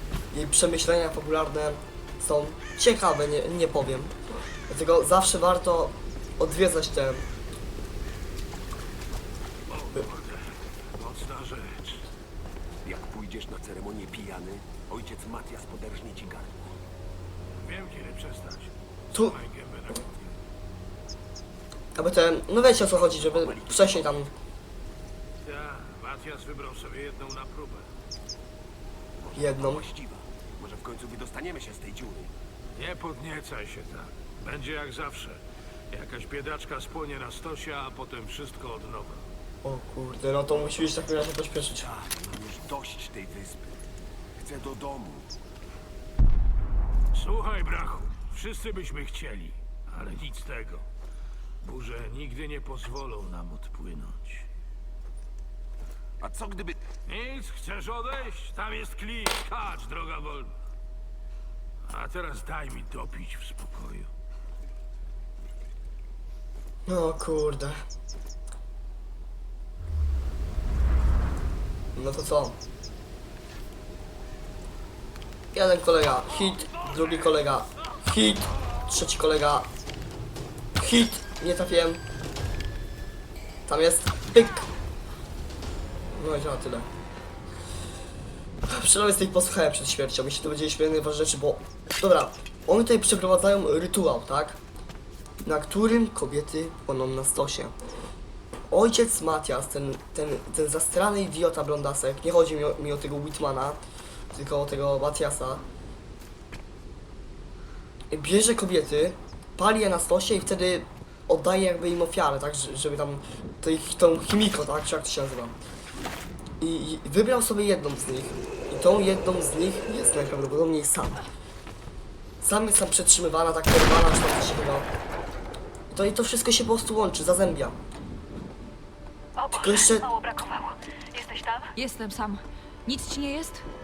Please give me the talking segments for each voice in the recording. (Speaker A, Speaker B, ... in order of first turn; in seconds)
Speaker A: 0.3-4.1, 4.7-7.2, 21.9-24.3, 29.4-29.8, 39.6-41.9, 66.8-67.8, 71.9-72.6, 75.5-79.7, 80.8-82.0, 83.7-84.7, 86.1-86.9, 88.7-94.6, 95.4-97.7, 98.7-103.8, 104.3-105.6, 108.1-115.6, 116.6-121.2, 122.4-124.9, 125.9-127.8, 129.5-130.1
Speaker B: 9.7-12.0, 17.6-20.3, 25.4-27.9, 32.7-35.4, 35.9-39.2, 47.1-50.9, 51.6-54.5, 57.0-60.5, 61.9-64.1
Speaker C: 12.8-16.7, 22.9-24.1, 29.2-32.3, 41.8-43.8, 44.4-45.3, 56.2-56.9
Speaker D: 129.4-131.7
Speaker E: 131.7-133.7